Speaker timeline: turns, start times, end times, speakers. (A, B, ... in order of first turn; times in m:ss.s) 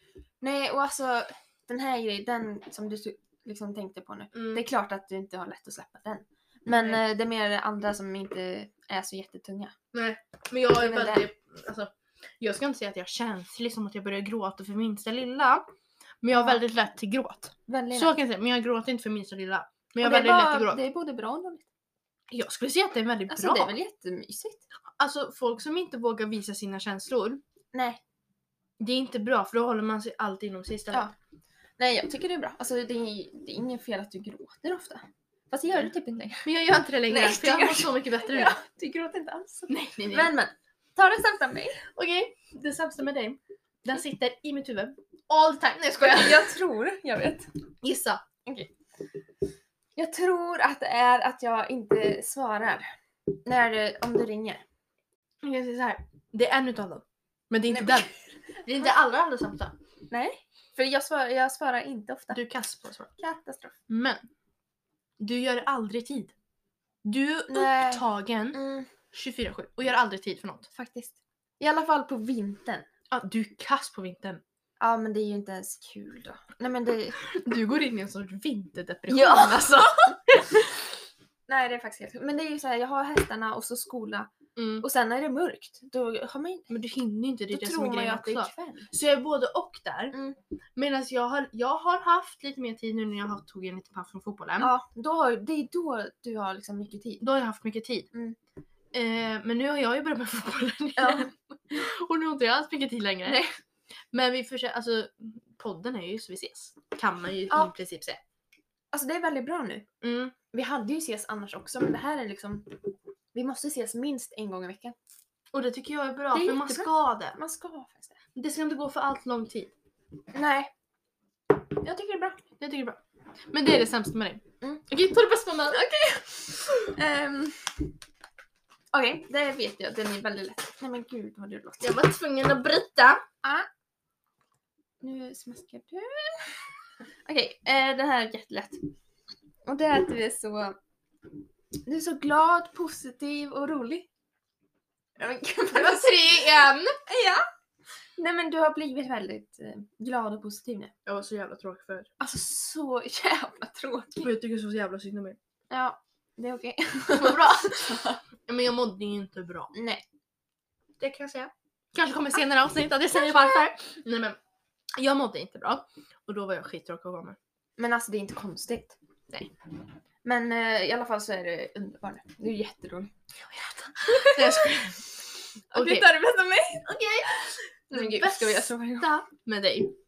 0:00.4-0:09.8 A
0:04.3-0:04.6 B
0:06.7-0:07.0 B
0:09.9-0:15.6 B
0:10.8-0:11.3 A
0:16.2-0:20.8 B
0:16.3-0:16.6 A
0:17.7-0:18.2 A
0:20.0-0:21.7 A
0:22.3-0:23.7 B
0:23.3-0:24.6 A
0:25.0-0:27.4 B
0:27.7-0:28.0 A
0:28.8-0:31.1 B
0:31.8-0:36.5 A
0:36.4-0:38.6 B
0:37.1-0:41.8 A
0:39.7-0:40.3 B
0:41.9-0:46.5 B
0:46.0-0:47.5 A
0:47.8-0:48.2 B
0:48.4-0:48.7 A
0:50.0-0:54.6 A
0:55.4-0:58.1 B
0:57.7-0:58.0 A
0:58.6-0:59.8 B
1:00.1-1:02.4 A
1:02.3-1:03.2 B
1:03.2-1:03.8 A
1:03.9-1:04.2 B
1:05.2-1:06.3 B
1:07.0-1:08.6 B
1:07.5-1:08.9 A
1:09.1-1:10.7 B
1:10.7-1:12.9 A
1:13.1-1:14.4 B
1:14.8-1:17.3 A
1:17.2-1:20.6 B
1:19.1-1:20.7 A
1:21.5-1:26.7 A
1:24.6-1:24.8 B
1:26.7-1:30.1 B
1:27.5-1:28.9 A
1:30.1-1:30.4 A
1:30.8-1:34.7 B
1:34.6-1:37.2 A
1:37.2-1:38.1 B
1:38.9-1:43.4 B
1:41.0-1:41.3 A
1:43.2-1:43.5 A
1:44.1-1:48.2 B
1:48.9-1:49.9 A
1:50.0-1:50.3 B
1:50.5-1:52.8 A
1:53.3-1:54.9 A
1:55.5-1:57.4 B
1:56.3-1:58.2 A
1:58.4-1:59.7 B
2:00.3-2:00.7 A
2:01.7-2:02.4 A
2:02.6-2:03.0 B
2:03.5-2:05.8 B
2:05.7-2:07.9 A
2:08.9-2:12.0 A
2:11.8-2:13.2 B
2:15.0-2:16.6 A
2:17.2-2:18.8 A
2:19.7-2:20.8 A
2:21.9-2:24.1 A
2:25.2-2:26.5 A
2:25.7-2:27.0 B
2:27.1-2:27.4 A
2:28.2-2:30.9 A
2:31.1-2:32.1 B
2:32.2-2:34.4 A
2:34.2-2:35.4 B
2:35.7-2:38.2 A
2:37.1-2:39.7 B
2:39.7-2:40.0 A
2:41.0-2:44.4 B
2:45.0-2:47.4 B
2:47.8-2:49.6 A
2:50.2-2:55.1 A
2:54.1-2:55.0 B
2:55.7-2:57.0 A
2:55.7-2:56.1 B
2:56.8-2:59.9 B
2:57.9-2:59.1 A